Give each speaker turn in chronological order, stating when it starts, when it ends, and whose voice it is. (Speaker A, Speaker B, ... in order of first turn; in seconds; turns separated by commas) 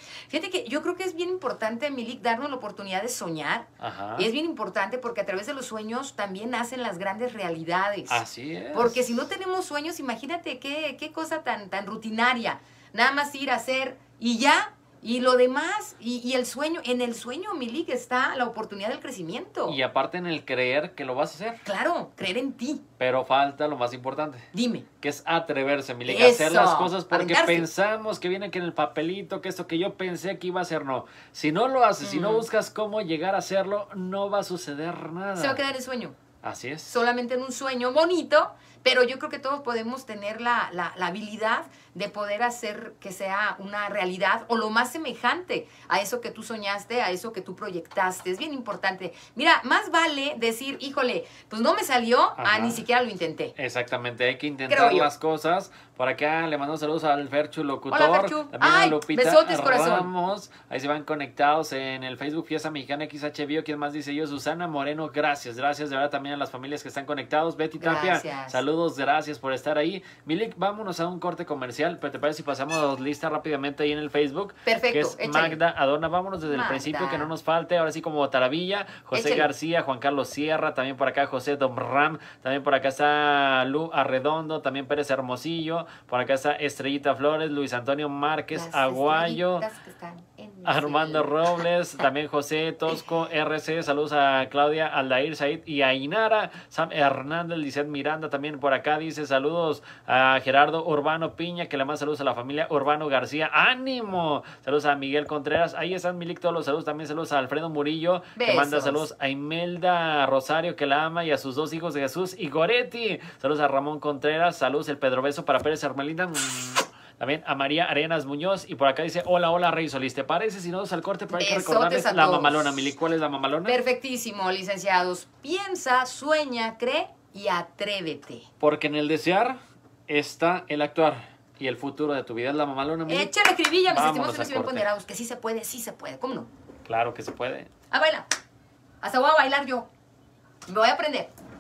Speaker A: 0.3-19.8, Speaker B: 3.8-4.3, Speaker B: 8.1-9.0, Speaker B: 19.7-21.6, Speaker A: 21.6-22.8, Speaker B: 23.0-24.5, Speaker A: 24.5-24.9, Speaker B: 25.0-35.6, Speaker A: 26.1-27.7, Speaker A: 32.0-32.5, Speaker A: 35.4-36.2, Speaker B: 36.4-37.0, Speaker A: 36.9-53.5, Speaker B: 52.4-52.8, Speaker B: 53.6-89.7, Speaker A: 54.7-55.1, Speaker A: 57.9-60.1, Speaker A: 67.8-68.6, Speaker A: 74.7-75.6, Speaker A: 76.5-77.3, Speaker A: 79.1-79.5, Speaker A: 88.5-91.6, Speaker B: 90.7-123.8, Speaker A: 108.4-109.1, Speaker A: 121.3-122.9, Speaker A: 123.7-128.5, Speaker B: 128.6-133.3, Speaker A: 133.1-136.5, Speaker B: 133.9-134.9, Speaker B: 136.9-137.7, Speaker A: 137.9-138.2, Speaker A: 139.0-139.9, Speaker A: 140.7-141.3